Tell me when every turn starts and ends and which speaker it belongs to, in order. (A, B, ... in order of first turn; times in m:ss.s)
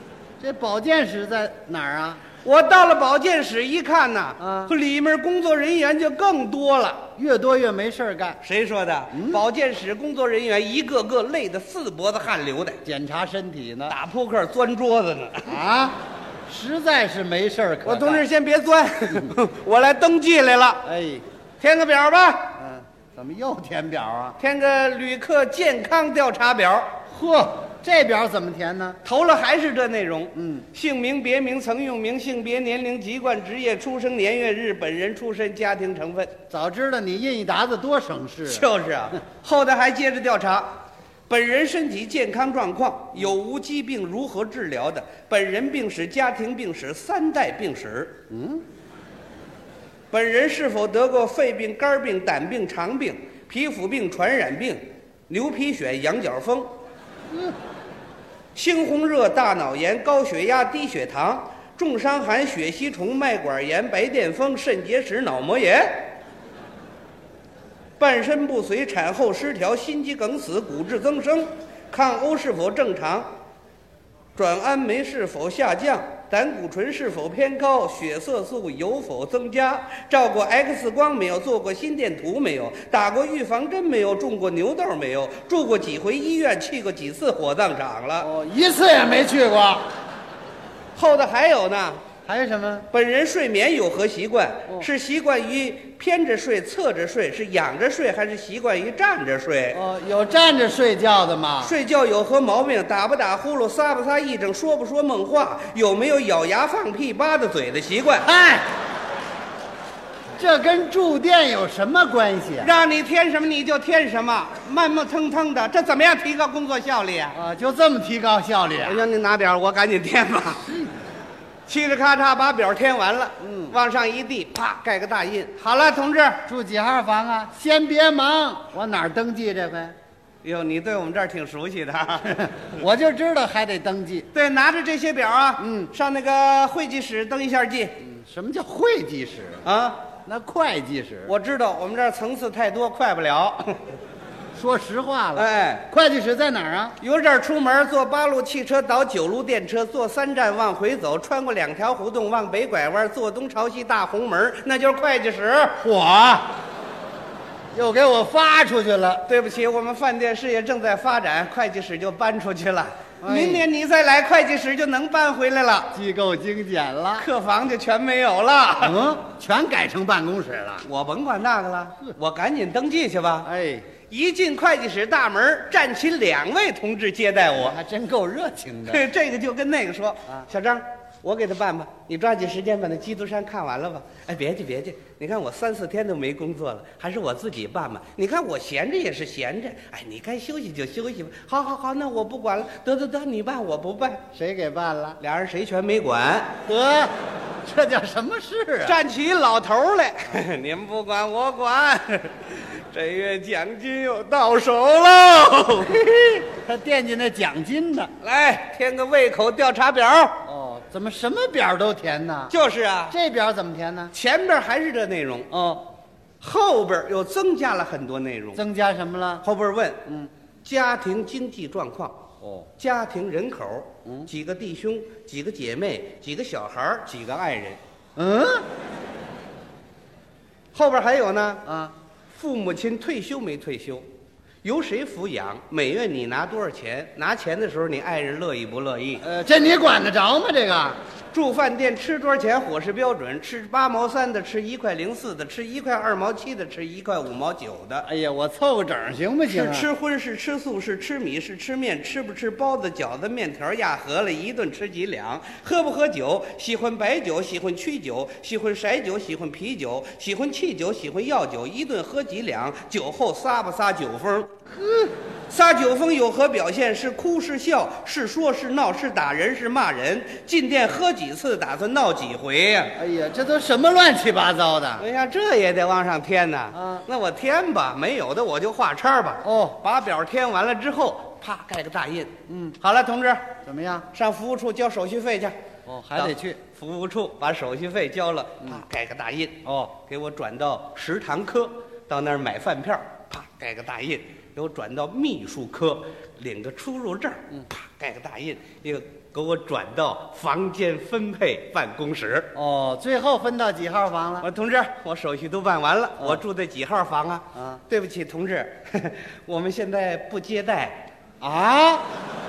0:00.4-0:02.2 A
0:02.4-0:07.1 B
0:04.4-0:04.7 A
0:07.2-0:08.4 A
0:08.4-0:12.8 B
0:09.1-0:09.4 A
0:12.8-0:14.0 A
0:13.9-0:15.6 B
0:15.5-0:18.3 A
0:17.8-0:20.8 B
0:20.8-0:21.2 A
0:21.6-0:22.5 B
0:22.6-0:24.4 A
0:24.4-0:26.9 B
0:27.1-0:29.0 A
0:29.0-0:36.3 B
0:30.4-0:30.7 A
0:36.5-0:38.7 A
0:38.4-0:40.7 B
0:41.3-0:48.2 B
0:48.3-0:48.6 A
0:50.1-0:56.7 B
0:58.6-1:06.1 B
1:08.0-1:13.3 B
1:14.4-1:28.3 B
1:28.2-1:29.9 A
1:31.0-1:32.0 B
1:32.3-1:32.9 A
1:32.9-1:39.8 B
1:39.7-1:41.7 A
1:41.6-1:48.3 B
1:48.2-1:48.7 A
1:50.4-1:52.7 A
1:52.6-1:57.4 B
1:57.3-1:59.0 A
1:58.8-2:00.7 B
2:00.6-2:00.9 A
2:01.7-2:06.4 B
2:03.4-2:03.8 A
2:06.5-2:10.0 A
2:10.4-2:12.6 B
2:12.3-2:14.3 A
2:14.3-2:18.0 B
2:15.6-2:15.9 A
2:18.0-2:19.6 A
2:19.6-2:20.0 B
2:20.3-2:21.3 A
2:21.3-2:24.0 B
2:24.6-2:27.0 A
2:25.4-2:25.9 B
2:27.0-2:35.8 B
2:35.8-2:36.5 A
2:37.7-2:39.2 A
2:39.3-2:45.9 B
2:43.2-2:43.7 A
2:45.9-2:47.3 A
2:47.2-2:49.0 B
2:48.8-2:50.9 A
2:50.8-2:53.5 B
2:53.4-2:53.9 A
2:54.1-2:57.8 B
2:57.5-2:59.0 A
2:58.9-3:14.2 B
3:14.3-3:15.2 A
3:15.2-3:16.6 B
3:16.7-3:17.1 A
3:17.6-3:19.0 A
3:18.8-3:26.1 B
3:25.8-3:28.1 A
3:28.2-3:30.4 B
3:30.5-3:32.5 A
3:32.5-3:33.2 B
3:33.1-3:34.1 A
3:34.1-3:35.5 B
3:35.5-3:35.8 A
3:36.4-3:38.6 B
3:38.5-3:39.4 A
3:39.4-3:40.0 B
3:40.6-3:42.2 B
3:42.4-3:42.7 A
3:42.8-3:47.8 B
3:48.2-3:48.6 A
3:50.7-3:51.6 B
3:51.7-3:51.9 A
3:52.3-3:54.0 B
3:54.6-3:59.3 B
3:59.2-4:01.0 A
4:01.3-4:08.1 B
4:08.0-4:09.9 A
4:09.5-4:24.5 B
4:24.8-4:25.1 A
4:25.5-4:33.0 B
4:33.0-4:35.1 A
4:35.0-4:43.5 B
4:36.7-4:37.0 A
4:39.4-4:39.8 A
4:42.5-4:42.8 A
4:43.7-4:44.1 A
4:44.1-4:45.6 B
4:45.9-4:46.6 A
4:46.2-5:02.5 B
4:49.6-4:49.9 A
5:02.5-5:04.5 A
5:04.4-5:11.0 B
5:07.6-5:07.8 A
5:11.4-5:12.1 A